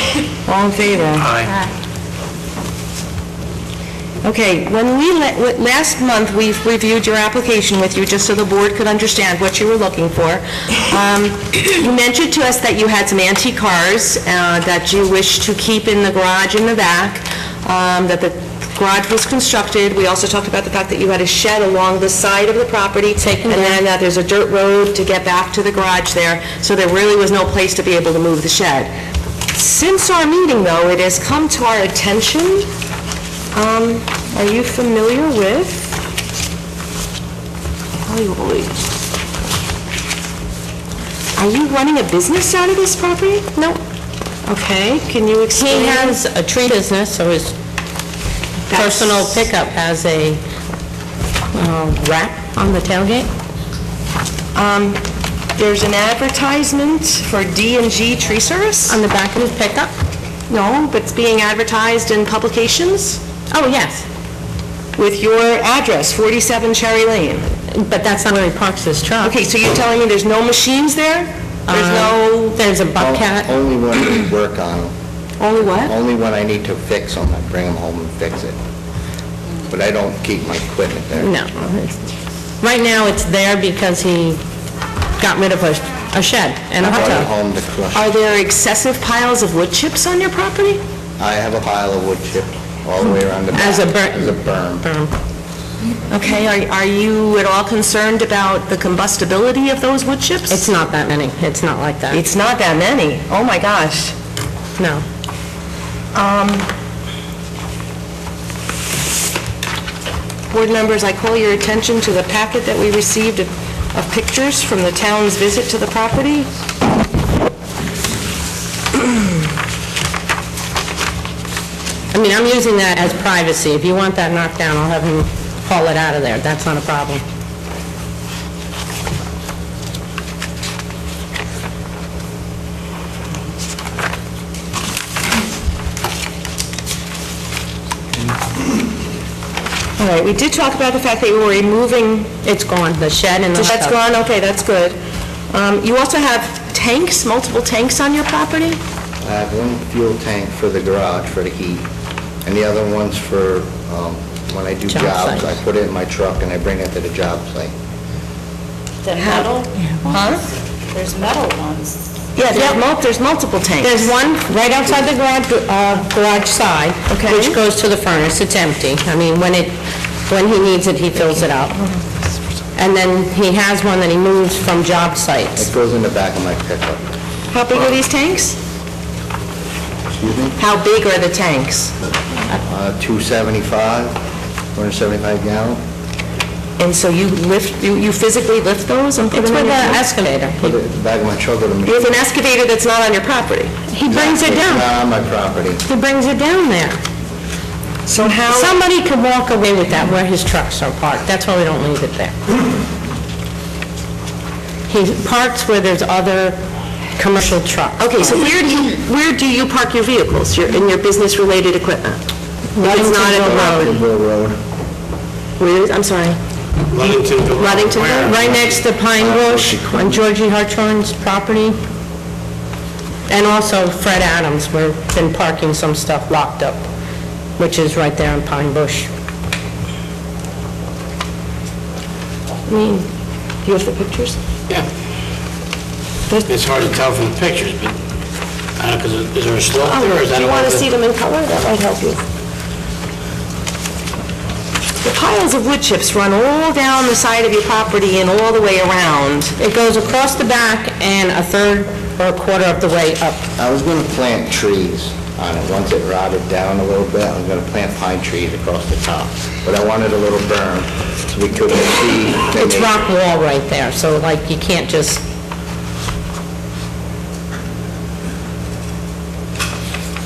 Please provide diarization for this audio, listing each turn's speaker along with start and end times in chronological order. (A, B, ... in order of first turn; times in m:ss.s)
0:00.4-0:01.3 A
0:01.2-0:01.5 B
0:04.2-0:28.9 A
0:23.2-0:23.8 C
0:29.5-0:32.7 A
0:33.5-0:36.0 A
0:38.0-0:38.8 A
0:41.4-0:43.5 A
0:44.5-0:46.2 A
0:45.6-0:47.5 C
0:48.7-0:49.5 A
0:48.7-0:50.4 C
0:51.5-0:53.3 C
0:54.5-0:55.0 A
0:55.6-0:59.0 A
0:58.9-0:59.9 C
1:00.5-1:03.2 A
1:03.5-1:04.0 C
1:05.0-1:07.5 A
1:07.7-1:09.4 C
1:09.2-1:12.6 A
1:11.7-1:13.5 C
1:13.0-1:14.9 D
1:15.4-1:15.9 A
1:15.9-1:18.6 D
1:19.7-1:21.3 D
1:21.2-1:22.0 C
1:22.6-1:24.4 C
1:25.2-1:27.3 C
1:26.8-1:28.1 D
1:27.9-1:30.8 A
1:31.2-1:34.8 D
1:33.5-1:35.1 C
1:36.1-1:40.7 A
1:40.5-1:42.2 C
1:42.1-1:44.1 A
1:44.8-1:45.0 C
1:46.1-1:46.7 A
1:50.5-1:56.5 A
2:02.1-2:07.2 C
2:20.0-2:22.4 A
2:22.4-2:24.0 C
2:23.5-2:25.0 A
2:25.5-2:28.8 A
2:29.2-2:31.8 D
2:32.4-2:37.7 D
2:34.9-2:35.5 C
2:39.0-2:40.4 E
2:39.2-2:40.4 A
2:40.9-2:42.1 E
2:42.4-2:44.1 A
2:42.5-2:42.8 C
2:43.8-2:49.7 C
2:47.1-2:47.6 A
2:50.3-2:51.8 C
2:52.8-2:55.7 C
2:55.6-2:57.0 D
2:57.5-2:58.6 A
3:00.2-3:00.6 D
3:00.6-3:01.9 A
3:02.7-3:04.2 D
3:04.8-3:05.8 D
3:06.8-3:10.0 A
3:09.3-3:10.8 C
3:10.6-3:12.2 D
3:11.9-3:13.7 A
3:13.9-3:14.9 C
3:14.1-3:15.8 D
3:15.8-3:17.0 C
3:18.1-3:18.8 A
3:18.5-3:22.3 C
3:24.9-3:26.6 C
3:27.2-3:28.3 C
3:28.0-3:32.2 A
3:32.8-3:34.0 C
3:32.8-3:33.9 A
3:33.4-3:34.6 D
3:35.6-3:36.4 A
3:36.9-3:38.8 B
3:37.0-3:38.4 A
3:38.2-3:41.8 C
3:39.2-3:40.2 D
3:43.3-3:46.9 C
3:47.6-3:49.1 C
3:52.7-3:53.1 A
3:53.6-3:54.4 A
3:56.5-3:58.0 B
3:58.8-4:00.9 B
3:59.8-4:02.2 A
4:05.0-4:09.6 A
4:09.6-4:13.4 C
4:13.6-4:23.0 D
4:22.5-4:25.2 C